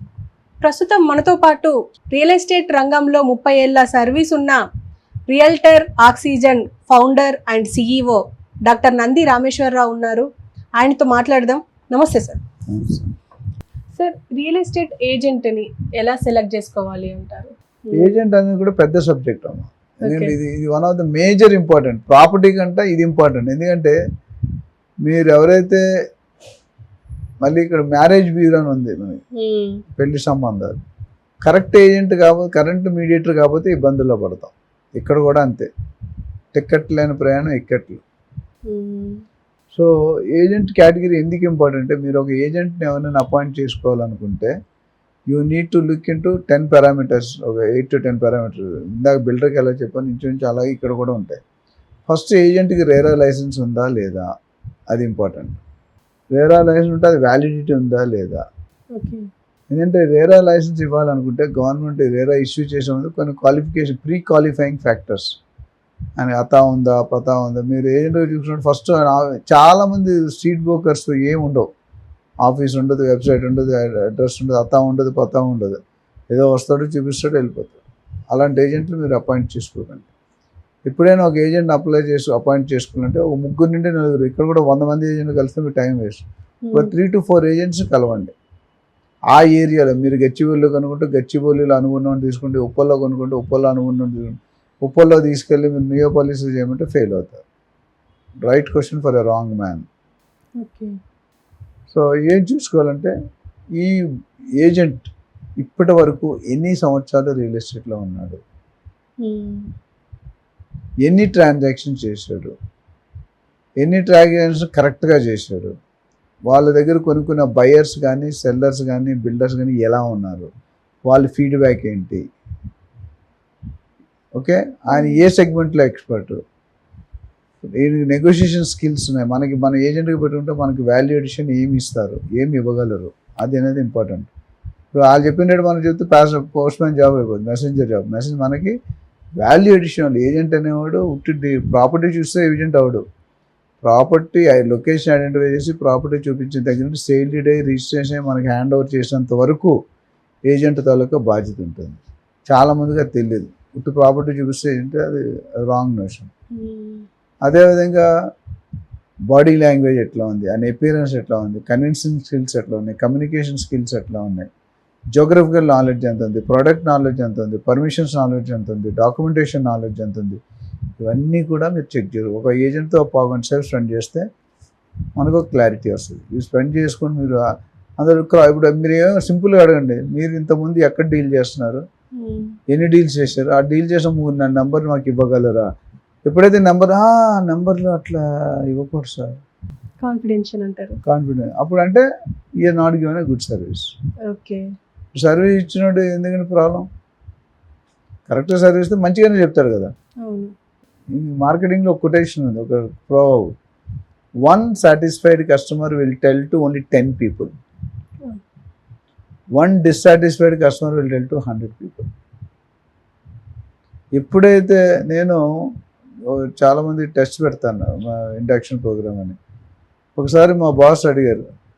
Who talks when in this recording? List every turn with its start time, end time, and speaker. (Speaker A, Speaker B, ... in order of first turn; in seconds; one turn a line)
Speaker A: 0.6-4.6
Speaker A: 5.3-12.4
Speaker B: 12.7-13.1
Speaker A: 13.9-18.1
Speaker B: 17.9-23.9
Speaker A: 20.0-20.4
Speaker B: 25.0-25.8
Speaker B: 27.4-29.2
Speaker A: 29.4-29.8
Speaker B: 29.9-30.8
Speaker B: 31.4-35.7
Speaker B: 36.5-38.0
Speaker A: 38.7-39.2
Speaker B: 39.7-44.5
Speaker B: 45.3-51.4
Speaker B: 52.1-54.3
Speaker B: 54.9-55.6
Speaker B: 56.3-58.4
Speaker A: 58.9-59.3
Speaker B: 59.7-65.3
Speaker B: 66.2-71.7
Speaker B: 72.4-75.8
Speaker B: 76.3-77.8
Speaker B: 78.3-80.1
Speaker B: 80.8-88.3
Speaker A: 86.6-86.9
Speaker B: 89.3-97.4
Speaker B: 98.4-99.8
Speaker A: 100.6-100.9
Speaker B: 101.9-103.1
Speaker B: 103.8-104.0
Speaker B: 104.6-108.4
Speaker A: 109.2-109.7
Speaker B: 111.0-112.5
Speaker B: 113.8-115.7
Speaker B: 116.5-120.5
Speaker B: 121.1-122.2
Speaker B: 124.4-126.4
Speaker A: 124.9-125.2
Speaker B: 127.8-134.3
Speaker B: 134.9-138.8
Speaker B: 139.4-143.0
Speaker B: 143.8-149.7
Speaker B: 150.5-156.3
Speaker A: 156.5-157.1
Speaker B: 157.4-158.1
Speaker B: 159.3-164.5
Speaker B: 165.2-170.4
Speaker B: 171.0-174.2
Speaker B: 175.2-177.4
Speaker B: 178.0-181.8
Speaker A: 182.2-182.6
Speaker B: 182.7-185.7
Speaker B: 186.2-189.3
Speaker A: 190.0-191.0
Speaker B: 191.1-192.1
Speaker B: 192.6-193.9
Speaker A: 194.3-194.7
Speaker B: 195.2-196.8
Speaker B: 198.3-199.9
Speaker A: 200.2-200.5
Speaker B: 201.1-203.5
Speaker B: 204.4-207.5
Speaker B: 209.6-212.1
Speaker B: 214.1-215.4
Speaker B: 216.2-219.4
Speaker B: 220.2-221.4